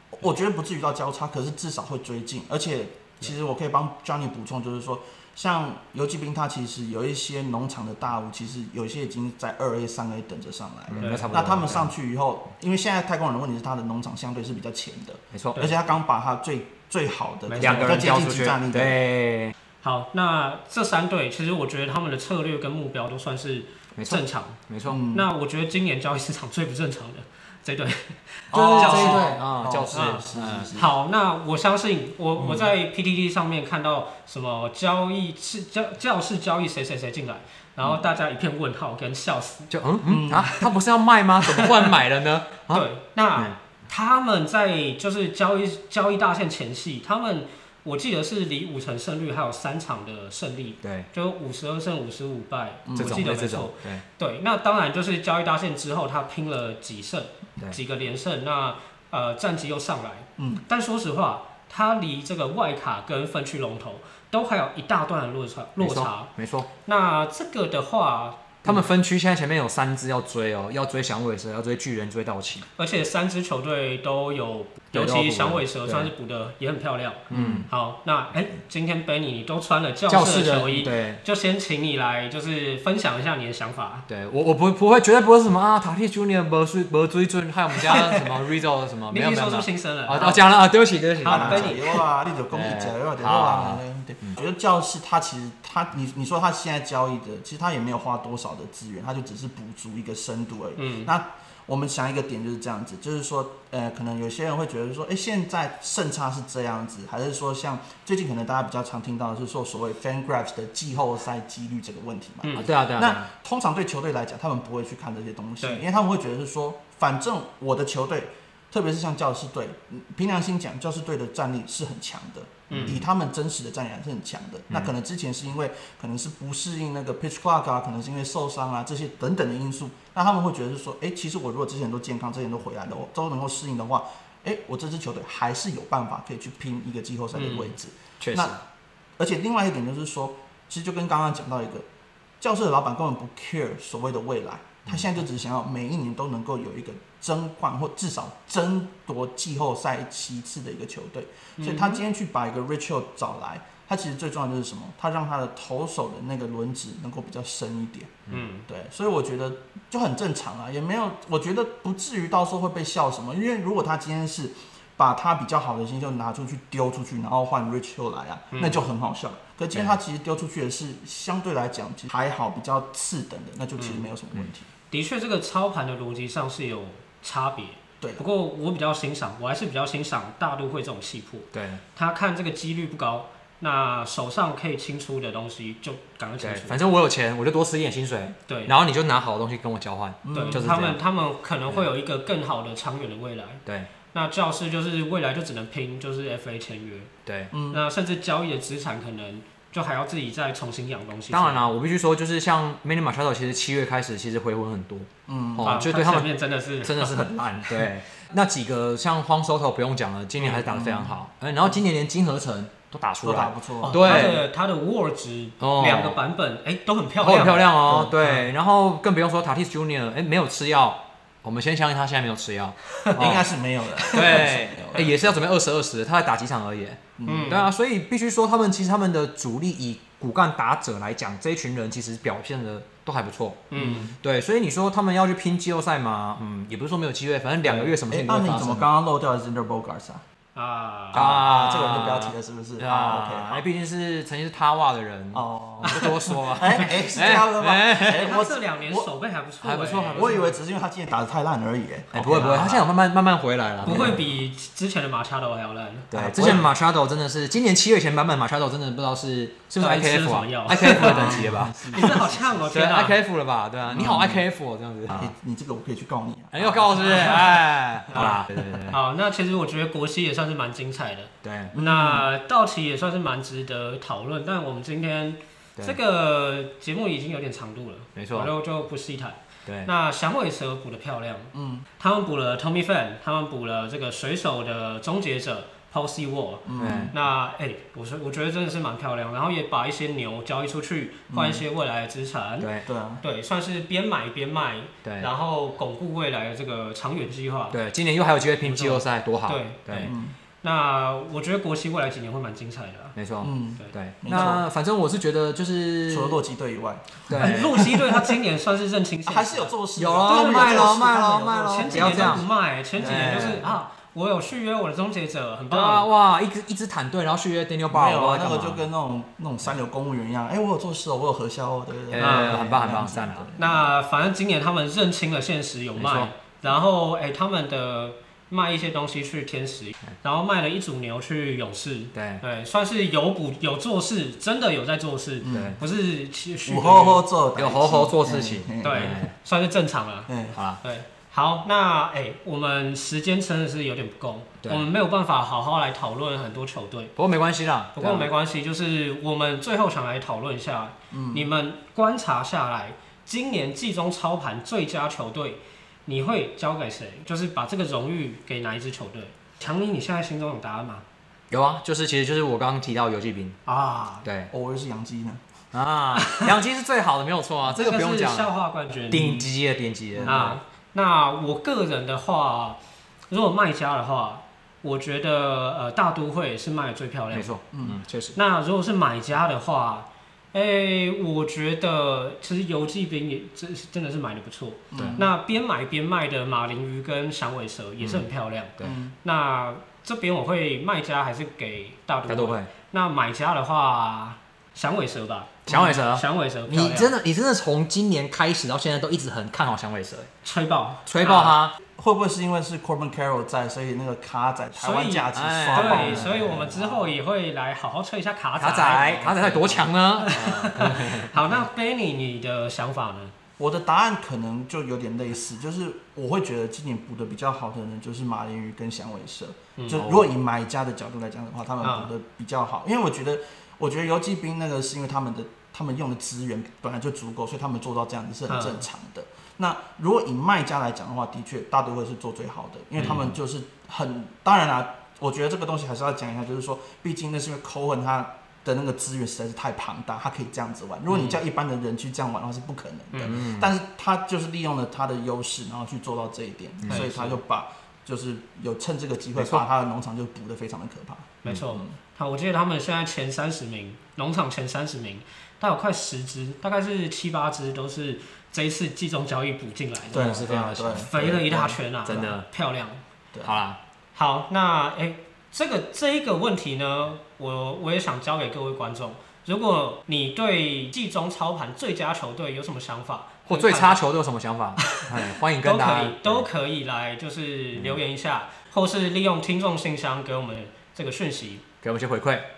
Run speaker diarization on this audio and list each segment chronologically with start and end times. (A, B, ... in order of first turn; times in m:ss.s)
0:00.1-0:19.0 A
0:10.9-0:11.9 B
0:11.0-0:11.4 C
0:15.3-0:15.6 B
0:17.5-0:18.2 C
0:17.6-0:19.5 B
0:19.8-0:24.6 C
0:24.0-0:25.0 B
0:24.9-0:25.3 A
0:25.1-0:29.3 C
0:28.5-0:30.9 A
0:28.5-0:30.8 B
0:29.9-0:39.7 C
0:39.7-0:43.5 B
0:40.0-0:40.6 A
0:41.5-0:41.9 C
0:42.7-1:06.3 C
0:50.8-0:51.1 B
0:52.8-0:53.3 A
0:53.0-0:54.0 B
1:00.4-1:00.6 A
1:05.8-1:06.7 B
1:06.8-1:08.8 C
1:08.6-1:12.6 B
1:12.8-1:24.0 C
1:14.9-1:16.1 B
1:17.3-1:17.7 B
1:17.3-1:17.6 A
1:20.1-1:21.2 B
1:24.1-1:31.8 B
1:27.7-1:28.4 C
1:29.1-1:30.5 C
1:31.2-1:32.0 C
1:31.2-2:18.6 A
1:32.5-1:34.3 B
1:40.8-1:41.1 C
1:52.5-1:53.3 B
2:02.7-2:03.0 C
2:02.7-2:03.0 B
2:17.3-2:17.7 C
2:18.2-2:18.6 B
2:19.2-2:21.8 A
2:22.4-2:54.7 A
2:31.6-2:32.0 C
2:38.3-2:38.7 C
2:48.5-2:48.8 C
2:53.8-2:54.0 C
2:54.9-3:06.8 C
3:01.5-3:01.8 B
3:06.4-3:11.0 B
3:08.5-3:08.7 C
3:10.2-3:10.6 A
3:10.3-3:17.1 C
3:17.2-3:17.5 B
3:17.5-3:17.8 A
3:17.7-3:21.6 C
3:21.3-3:26.3 B
3:25.3-3:25.9 A
3:25.6-3:27.3 C
3:26.8-3:34.4 B
3:30.4-3:31.2 A
3:33.2-3:34.4 A
3:33.8-3:37.7 C
3:35.6-3:36.2 B
3:37.2-3:43.5 B
3:37.8-3:38.3 A
3:43.1-3:43.4 C
3:43.2-3:45.3 A
3:44.0-3:44.5 C
3:44.1-3:58.8 B
3:47.2-3:47.6 A
3:47.2-3:47.7 C
3:53.7-3:54.1 C
3:53.7-3:54.1 A
3:57.6-3:57.9 C
3:58.1-4:00.2 A
4:00.5-4:01.3 C
4:01.1-4:03.6 A
4:01.1-4:08.3 B
4:05.3-4:09.1 A
4:05.8-4:07.2 C
4:08.0-4:10.6 C
4:09.6-4:10.4 B
4:10.1-4:12.8 A
4:12.1-4:14.2 B
4:12.3-4:12.8 C
4:13.8-4:14.2 A
4:13.8-4:16.6 C
4:16.1-4:25.3 B
4:16.1-4:16.7 A
4:19.8-4:23.1 C
4:20.8-4:22.6 A
4:23.9-4:24.4 A
4:25.1-4:28.8 A
4:26.5-4:29.0 B
4:28.1-4:28.4 C
4:28.9-4:52.7 C
4:31.4-4:31.7 B
4:31.7-4:32.2 A
4:38.2-4:38.5 B
4:39.6-4:39.9 B
4:41.5-4:41.8 A
4:46.6-4:47.1 A
4:46.8-4:47.1 B
4:51.3-4:51.6 A
4:52.6-4:52.8 B
4:52.8-4:53.2 A
4:53.2-4:57.8 C
4:55.0-4:55.3 B
4:57.7-5:00.1 B
4:58.6-5:03.1 C
5:00.0-5:00.4 A
5:03.2-5:06.4 B
5:03.4-5:04.6 A
5:06.1-5:08.3 A
5:07.3-5:08.0 B
5:07.4-5:11.0 C
5:09.2-5:13.6 A
5:10.0-5:12.4 B
5:11.7-5:16.1 C
5:13.0-5:13.7 B
5:15.7-5:18.8 B
5:17.9-5:23.9 A
5:22.1-5:23.5 B
5:22.2-5:22.7 C
5:23.6-5:37.2 C
5:26.0-5:26.3 B
5:32.1-5:32.4 B
5:35.4-5:35.8 A
5:35.5-5:35.8 B
5:36.6-5:39.2 A
5:37.6-5:39.3 B
5:38.8-5:47.1 C
5:40.3-5:40.6 A
5:40.6-5:40.8 B
5:47.2-5:48.3 B
5:48.0-6:01.0 C
5:51.1-5:51.5 A
6:01.5-6:03.6 B
6:03.6-6:04.2 C
6:04.2-6:04.5 B
6:04.5-6:05.4 A
6:05.7-6:08.5 B
6:06.2-6:06.5 C
6:07.8-6:09.5 C
6:09.1-6:10.6 B
6:10.1-6:10.5 A
6:10.2-6:12.8 C
6:13.3-6:17.5 C
6:17.3-6:18.4 B
6:17.7-6:18.0 A
6:18.3-6:37.1 C
6:24.9-6:25.3 A
6:24.9-6:25.2 B
6:28.0-6:28.2 B
6:28.8-6:29.1 A
6:32.3-6:32.7 B
6:35.7-6:40.3 B
6:40.4-6:41.5 C
6:41.1-6:41.8 B
6:42.0-6:46.6 A
6:44.8-6:53.3 C
6:45.3-6:47.1 B
6:48.6-6:51.6 B
6:53.6-7:31.9 A
6:59.8-7:00.0 C
6:59.9-7:00.2 B
7:01.8-7:02.1 C
7:08.5-7:08.8 C
7:13.0-7:13.3 B
7:21.1-7:21.4 C
7:23.1-7:23.4 C
7:23.2-7:23.7 B
7:26.8-7:27.1 B
7:26.9-7:27.3 C
7:29.4-7:29.6 B
7:31.4-7:43.0 C
7:40.1-7:41.5 A
7:40.1-7:42.4 B
7:43.3-7:43.6 A
7:43.4-7:43.8 B
7:44.1-7:54.0 C
7:53.5-7:56.5 B
7:55.6-8:01.6 C
7:57.8-7:58.0 B
8:01.8-8:02.5 B